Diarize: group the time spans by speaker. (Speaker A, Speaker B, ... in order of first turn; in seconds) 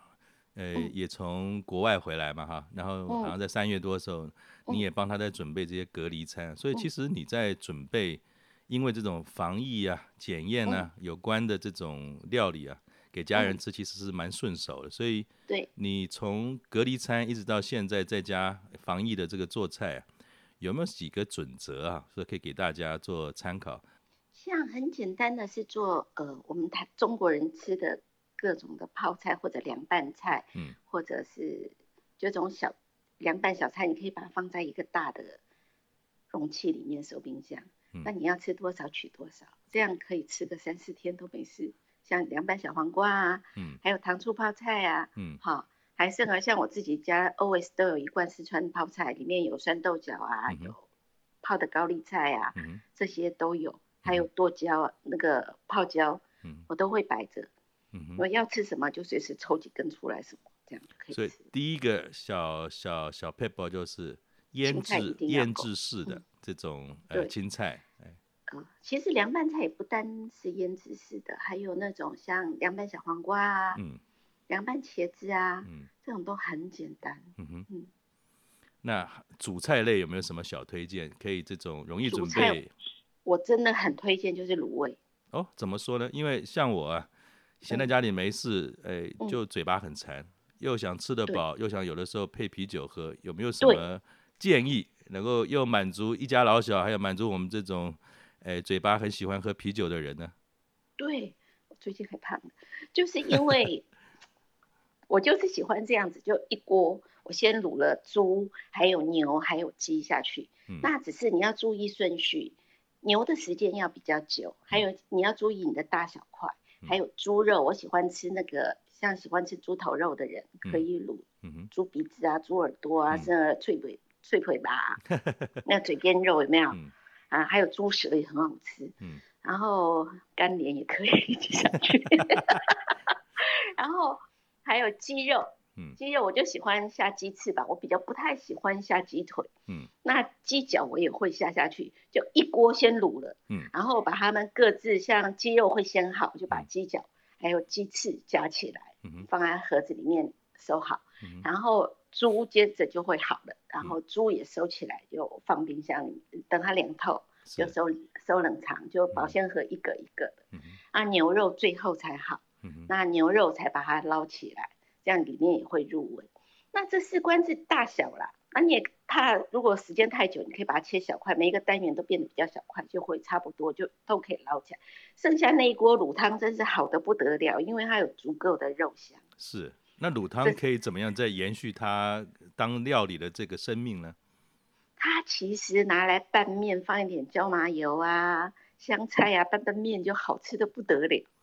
Speaker A: 0.5-20.1, 20.6-23.8, 50.5-50.7, 52.5-52.8, 57.9-58.2, 61.1-68.2, 73.7-74.0, 77.4-77.7, 78.8-82.7, 85.3-87.1, 87.6-100.3, 121.4-121.7, 125.2-125.5, 157.4-157.7, 162.6-162.9, 179.4-184.2
Speaker B: 3.1-3.3, 24.3-35.4, 36.3-50.8, 51.4-57.5, 58.2-61.5, 64.6-66.2, 68.5-73.8, 74.5-77.9, 82.0-82.6, 83.2-85.0, 101.0-103.8, 105.1-125.0, 125.6-126.8, 127.3-139.5, 140.0-179.2, 185.0-191.3